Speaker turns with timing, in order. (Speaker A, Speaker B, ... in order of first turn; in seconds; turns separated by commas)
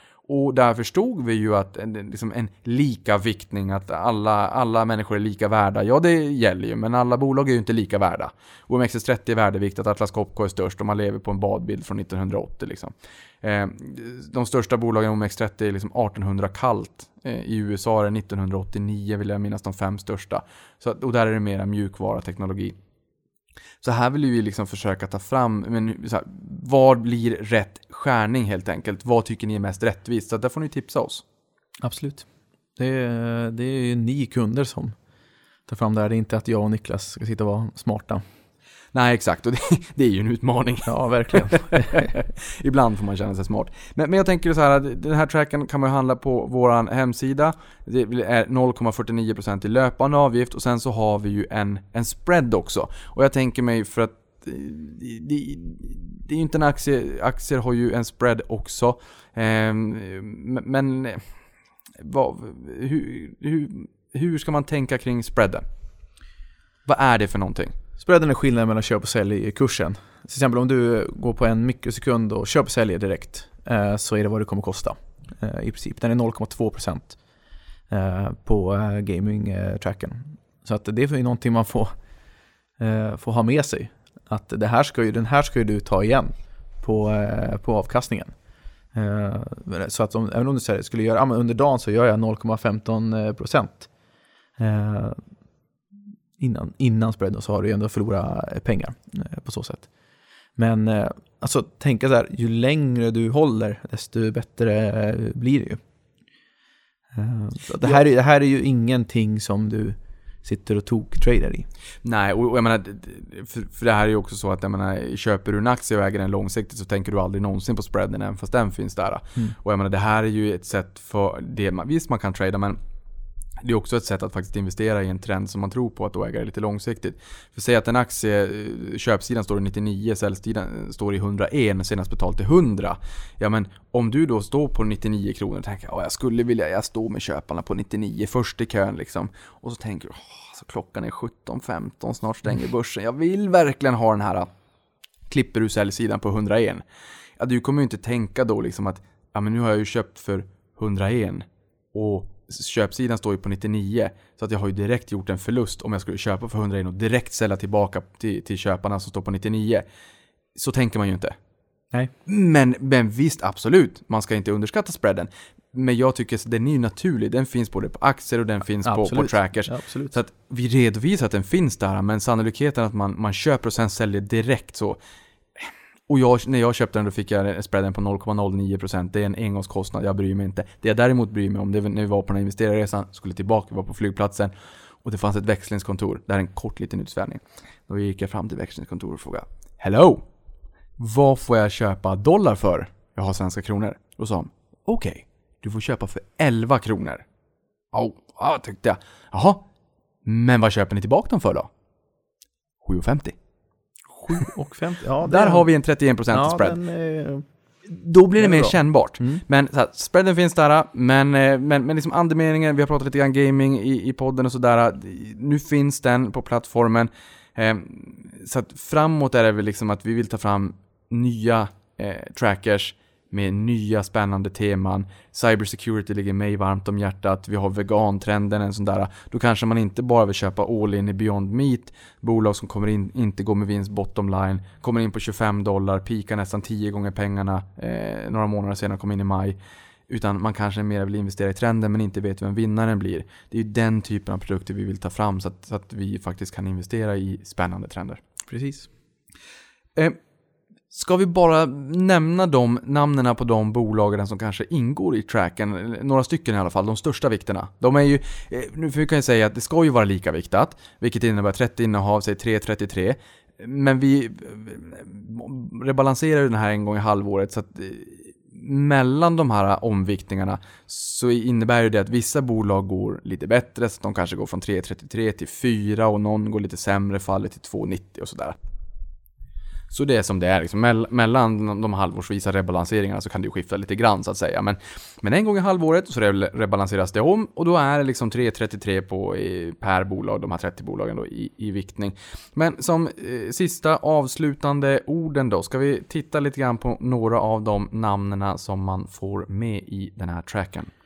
Speaker A: 0.3-22.8, Speaker A: 23.8-31.2, Speaker B: 31.8-35.0, Speaker B: 35.7-38.2, Speaker A: 38.9-61.2, Speaker B: 40.9-42.1, Speaker A: 62.0-65.6, Speaker A: 66.9-67.7, Speaker B: 68.0-77.2, Speaker B: 77.9-81.9, Speaker B: 82.8-88.3, Speaker B: 88.9-93.9, Speaker B: 94.6-95.2, Speaker B: 96.4-99.9, Speaker B: 100.6-105.8, Speaker B: 107.1-111.7, Speaker A: 112.0-122.8, Speaker A: 123.6-144.5, Speaker A: 145.3-146.8, Speaker A: 147.4-159.9, Speaker A: 160.6-161.4, Speaker A: 162.3-175.0, Speaker B: 168.8-170.2, Speaker A: 175.6-184.5, Speaker A: 185.0-190.2, Speaker A: 191.0-197.2, Speaker A: 197.9-199.7, Speaker A: 200.2-201.7, Speaker A: 202.8-203.4, Speaker B: 204.3-205.7, Speaker A: 205.2-206.8, Speaker B: 206.3-207.4, Speaker A: 207.8-239.6, Speaker B: 208.4-209.4, Speaker A: 240.1-248.2, Speaker B: 248.5-248.9, Speaker A: 250.9-278.6, Speaker A: 279.9-300.9